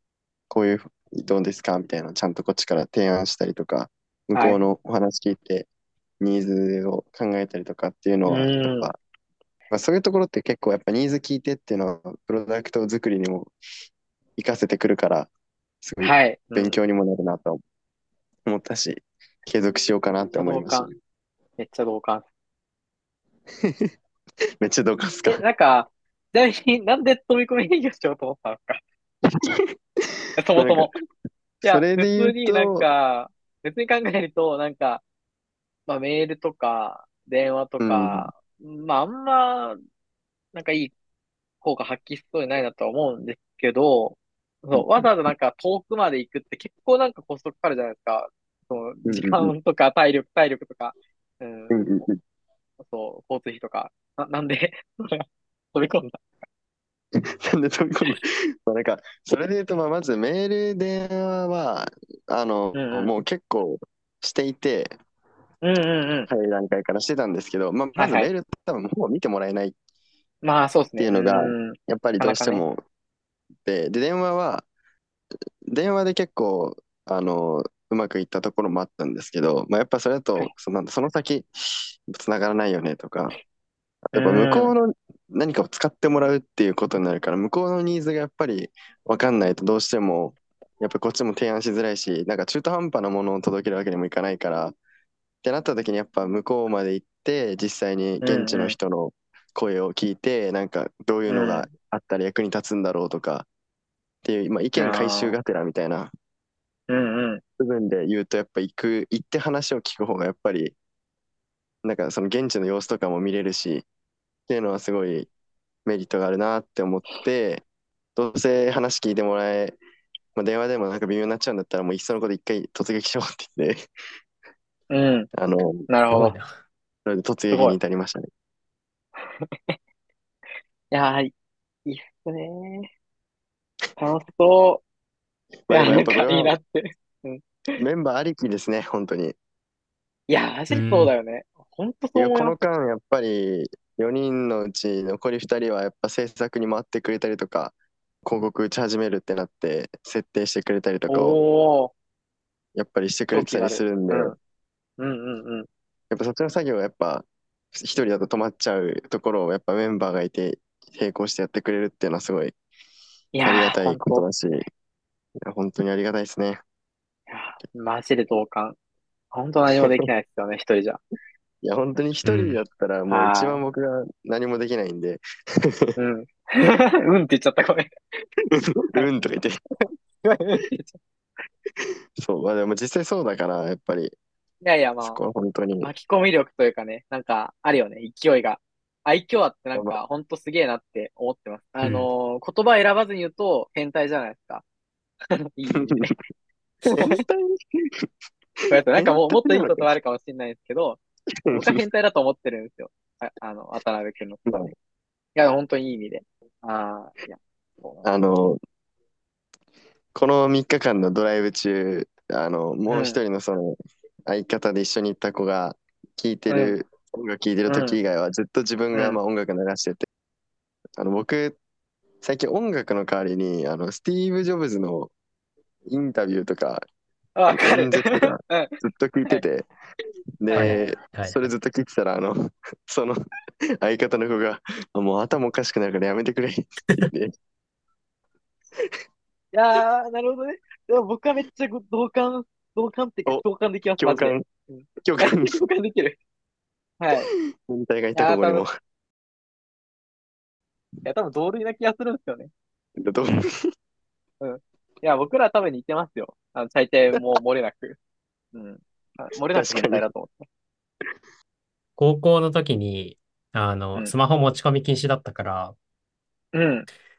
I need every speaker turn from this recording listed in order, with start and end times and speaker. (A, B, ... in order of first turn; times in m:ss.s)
0:00.5-0:05.7 A
0:06.2-0:09.0 A
0:08.3-0:08.9 B
0:09.7-0:13.5 A
0:14.4-0:15.3 A
0:15.8-0:17.6 A
0:16.0-0:16.7 B
0:18.5-0:20.9 A
0:20.4-0:20.9 B
0:21.6-0:22.2 B
0:23.6-0:23.9 A
0:24.6-0:25.4 A
0:25.3-0:28.8 B
0:29.3-0:29.6 A
0:30.4-0:30.9 B
0:30.6-0:30.9 A
0:31.6-0:32.9 A
0:31.7-0:35.0 B
0:35.9-0:39.8 B
0:37.8-0:38.3 A
0:40.5-0:40.9 B
0:41.6-0:51.8 B
0:44.7-0:45.3 A
0:49.0-0:49.5 A
0:51.7-0:52.2 A
0:52.9-0:55.2 B
0:55.8-0:56.3 B
0:57.2-1:05.0 A
1:02.7-1:03.1 B
1:05.6-1:06.2 B
1:06.3-1:09.8 A
1:08.0-1:08.2 B
1:10.4-1:12.6 B
1:11.0-1:12.8 A
1:13.6-1:14.7 A
1:15.7-1:21.5 A
1:22.1-1:23.4 A
1:24.1-1:34.8 A
1:24.2-1:24.6 B
1:35.4-1:43.5 A
1:38.2-1:38.8 B
1:44.2-1:46.1 A
1:44.8-1:45.3 B
1:46.9-1:47.4 B
1:47.6-1:50.8 A
1:51.8-1:53.8 A
1:54.5-1:55.3 A
1:55.9-1:57.6 A
1:58.2-1:59.8 A
2:00.4-2:03.8 A
2:04.9-2:05.3 B
2:05.3-2:05.9 A
2:05.9-2:06.4 B
2:06.1-2:06.5 C
2:07.0-2:08.3 A
2:09.4-2:09.8 B
2:10.9-2:11.3 B
2:11.9-2:12.9 B
2:14.0-2:14.8 B
2:15.7-2:16.6 A
2:15.7-2:17.8 B
2:17.8-2:19.4 A
2:20.3-2:22.5 B
2:20.7-2:21.1 C
2:22.2-2:31.4 A
2:31.1-2:31.9 B
2:32.8-2:34.4 A
2:33.3-2:34.4 B
2:35.0-2:35.7 B
2:36.1-2:42.6 A
2:43.4-2:44.2 B
2:43.4-2:44.6 A
2:45.4-2:46.6 A
2:47.3-2:48.8 B
2:49.3-2:51.0 B
2:49.8-2:50.1 A
2:51.6-2:55.9 A
2:52.2-2:52.6 C
2:53.1-2:53.6 B
2:56.0-2:57.9 B
2:58.5-2:59.6 A
3:00.2-3:01.0 B
3:02.2-3:04.2 A
3:04.6-3:05.2 B
3:05.0-3:05.9 A
3:05.8-3:14.6 B
3:09.7-3:10.0 A
3:11.8-3:12.1 C
3:15.6-3:16.1 B
3:15.7-3:16.2 A
3:16.9-3:17.2 B
3:16.9-3:18.1 A
3:18.6-3:19.9 A
3:18.7-3:21.0 B
3:21.4-3:21.8 A
3:21.5-3:24.4 B
3:24.5-3:24.7 A
3:25.4-3:27.9 B
3:28.0-3:28.6 A
3:30.2-3:33.8 A
3:32.9-3:33.2 B
3:34.3-3:40.1 A
3:37.7-3:38.0 B
3:41.0-3:41.6 A
3:42.2-3:45.1 A
3:45.9-3:46.8 A
3:47.4-3:48.7 B
3:47.5-3:49.7 A
3:50.4-3:53.2 A
3:50.5-3:51.5 C
3:53.8-3:57.3 A
3:59.5-4:06.2 B
4:04.0-4:04.4 A
4:05.0-4:05.6 A
4:07.2-4:08.7 A
4:08.2-4:08.6 B
4:11.0-4:12.5 B
4:13.0-4:13.7 A
4:14.4-4:18.0 B
4:17.1-4:17.4 A
4:18.5-4:20.5 B
4:19.5-4:20.1 A
4:22.0-4:25.8 C
4:26.6-4:26.9 B